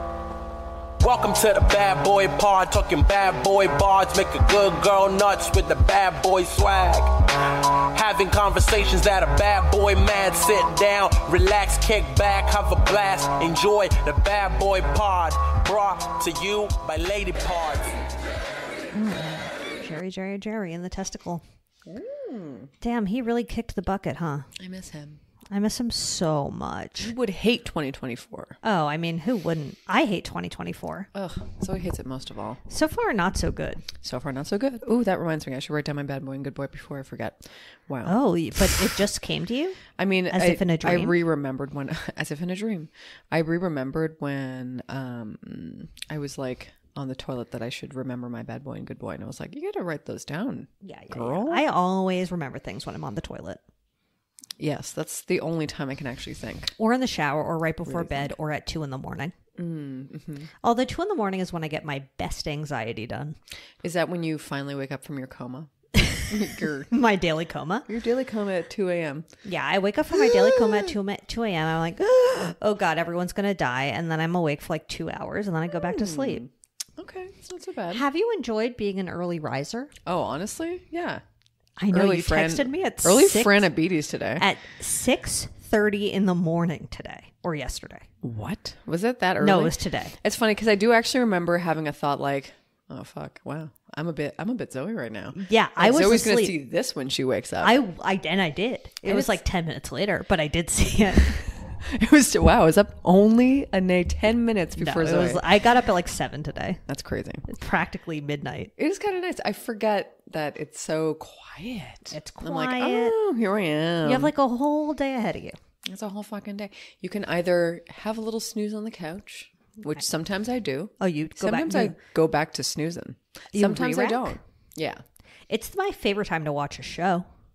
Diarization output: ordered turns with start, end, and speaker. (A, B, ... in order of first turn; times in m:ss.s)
0:01.0-0:18.0 A
0:18.9-0:21.4 B
0:21.9-0:22.7 C
0:22.8-0:24.5 B
0:24.6-0:25.2 C
0:25.5-0:27.1 B
0:27.0-0:28.6 C
0:28.6-0:31.1 B
0:31.1-0:32.6 C
0:32.7-0:33.9 B
0:34.0-0:39.0 C
0:38.1-0:41.2 B
0:40.0-0:51.6 C
0:50.8-0:53.6 B
0:54.6-0:56.7 C
0:56.8-0:59.4 B
0:57.8-0:58.3 C
0:59.6-1:00.5 C
1:00.6-1:03.4 B
1:03.8-1:05.7 C
1:06.0-1:06.3 B
1:06.3-1:06.9 C
1:06.9-1:07.9 B
1:07.9-1:09.3 C
1:09.4-1:16.4 B
1:10.1-1:10.9 C
1:15.7-1:18.0 C
1:17.9-1:19.9 B
1:20.1-1:21.2 C
1:21.8-1:23.7 B
1:21.9-1:24.4 C
1:24.4-1:28.1 B
1:28.2-1:37.7 C
1:29.4-1:30.2 B
1:35.4-1:36.6 B
1:37.6-1:41.4 B
1:39.0-1:39.4 C
1:41.2-1:45.4 C
1:44.8-1:46.8 B
1:46.9-1:47.5 C
1:47.5-1:48.7 B
1:48.8-1:54.3 C
1:52.1-1:53.2 B
1:54.0-1:55.6 B
1:55.9-2:05.0 C
2:01.0-2:02.0 B
2:03.5-2:04.4 B
2:05.5-2:07.3 B